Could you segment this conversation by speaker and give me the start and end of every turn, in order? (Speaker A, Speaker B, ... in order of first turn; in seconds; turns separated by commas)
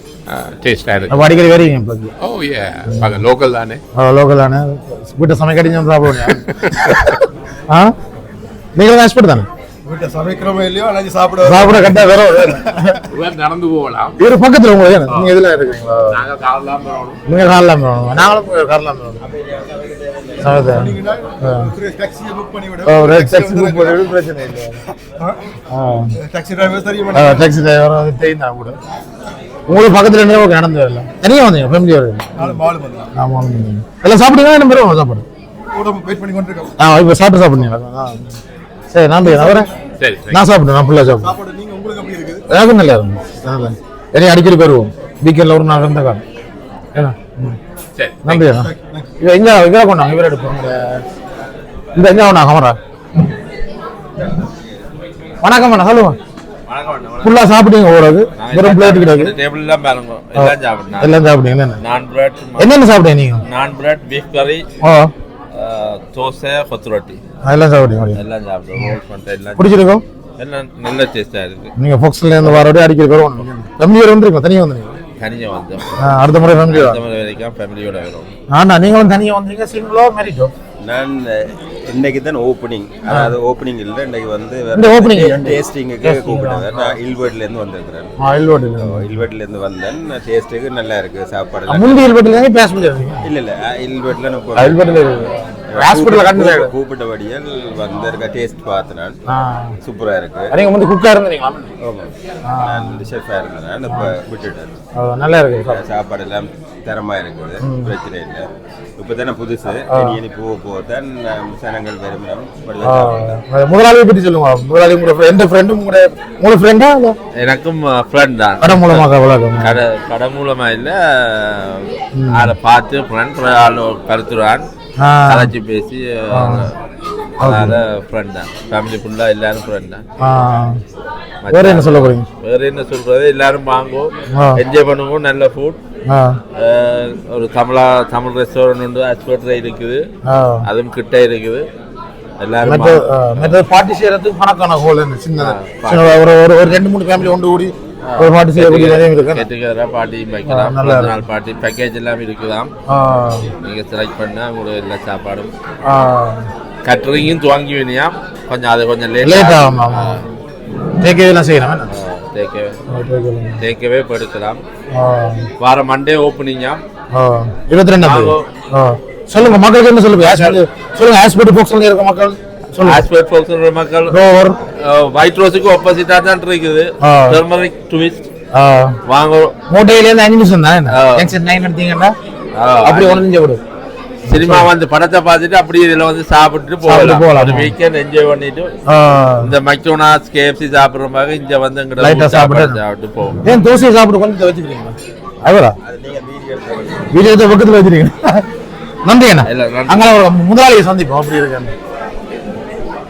Speaker A: 0.3-1.3, Speaker B: 1.1-2.1, Speaker A: 2.2-3.8, Speaker B: 2.9-3.2, Speaker B: 3.9-7.9, Speaker B: 8.8-9.5, Speaker C: 9.8-13.0, Speaker B: 11.4-13.0, Speaker A: 13.1-14.2, Speaker B: 14.2-16.2, Speaker A: 15.1-15.3, Speaker A: 16.1-17.2, Speaker B: 17.2-19.2, Speaker D: 19.4-20.4, Speaker B: 20.4-21.7, Speaker C: 20.7-24.0, Speaker B: 22.8-24.8, Speaker B: 25.7-26.1, Speaker C: 26.2-27.5, Speaker B: 27.1-28.8, Speaker B: 29.7-32.6, Speaker C: 32.4-33.1, Speaker B: 33.1-35.2, Speaker C: 35.7-36.7, Speaker B: 36.8-38.3, Speaker B: 38.9-39.7, Speaker A: 40.0-40.4, Speaker B: 40.3-41.3, Speaker C: 41.2-42.4, Speaker B: 42.5-46.2, Speaker B: 46.9-47.6, Speaker A: 48.0-48.5, Speaker B: 48.2-51.0, Speaker C: 48.5-49.1, Speaker B: 51.9-52.8, Speaker B: 55.4-56.2, Speaker E: 56.7-57.4, Speaker B: 57.2-59.4, Speaker E: 58.4-61.2, Speaker B: 60.3-61.8, Speaker E: 61.8-62.8, Speaker B: 62.6-63.4, Speaker E: 63.4-64.6, Speaker B: 64.8-65.1, Speaker E: 65.5-67.2, Speaker B: 67.4-68.2, Speaker E: 68.1-69.8, Speaker B: 69.6-70.0, Speaker E: 70.4-71.7, Speaker B: 71.8-75.0, Speaker E: 75.2-75.8, Speaker B: 76.0-77.0, Speaker E: 76.7-78.3, Speaker B: 78.5-80.5, Speaker D: 80.8-88.1, Speaker B: 83.1-83.3, Speaker B: 84.7-86.9, Speaker B: 88.2-89.2, Speaker D: 88.8-92.1, Speaker B: 91.7-93.2, Speaker D: 93.2-94.8, Speaker B: 94.5-96.7, Speaker D: 95.7-99.2, Speaker B: 99.3-99.8, Speaker D: 99.8-100.5, Speaker B: 100.5-101.7, Speaker D: 101.8-102.1, Speaker B: 102.4-103.0, Speaker D: 102.7-104.7, Speaker B: 103.9-104.1, Speaker B: 105.0-105.8, Speaker D: 105.7-108.4, Speaker B: 107.6-107.9, Speaker D: 109.0-113.3, Speaker B: 109.9-110.2, Speaker B: 112.8-117.2, Speaker E: 117.4-124.7, Speaker B: 118.6-119.8, Speaker B: 122.1-122.5, Speaker B: 125.0-125.5, Speaker E: 125.2-126.7, Speaker B: 126.3-126.7, Speaker E: 127.4-130.0, Speaker B: 127.4-127.8, Speaker B: 130.2-130.8, Speaker E: 131.4-135.8, Speaker B: 131.5-132.2, Speaker B: 134.3-134.6, Speaker B: 136.1-136.4, Speaker E: 136.5-140.0, Speaker B: 140.2-140.7, Speaker E: 140.6-141.6, Speaker E: 142.4-143.6, Speaker B: 142.6-149.4, Speaker E: 145.4-146.2, Speaker E: 148.0-152.7, Speaker B: 150.4-151.2, Speaker B: 152.9-153.5, Speaker E: 153.6-155.5, Speaker B: 155.8-156.5, Speaker E: 156.8-160.2, Speaker B: 159.2-160.2, Speaker B: 161.0-161.9, Speaker E: 161.9-162.8, Speaker B: 162.9-163.6, Speaker E: 163.6-164.6, Speaker B: 164.9-165.5, Speaker E: 165.6-166.8, Speaker B: 167.1-173.1, Speaker E: 168.0-168.4, Speaker E: 170.2-170.6, Speaker E: 172.8-174.2, Speaker B: 174.1-174.6, Speaker E: 174.8-178.2, Speaker B: 177.0-177.4, Speaker B: 178.5-179.0, Speaker E: 179.1-179.6, Speaker B: 179.7-182.1, Speaker E: 180.9-181.3, Speaker E: 182.6-183.2, Speaker B: 182.8-183.6, Speaker B: 184.2-184.7, Speaker E: 184.3-188.7, Speaker B: 186.8-187.7, Speaker B: 188.9-189.5, Speaker E: 189.4-193.4, Speaker B: 192.0-192.8, Speaker B: 193.4-195.8, Speaker D: 195.8-197.1, Speaker B: 197.1-198.5, Speaker B: 199.0-201.7, Speaker E: 199.4-200.1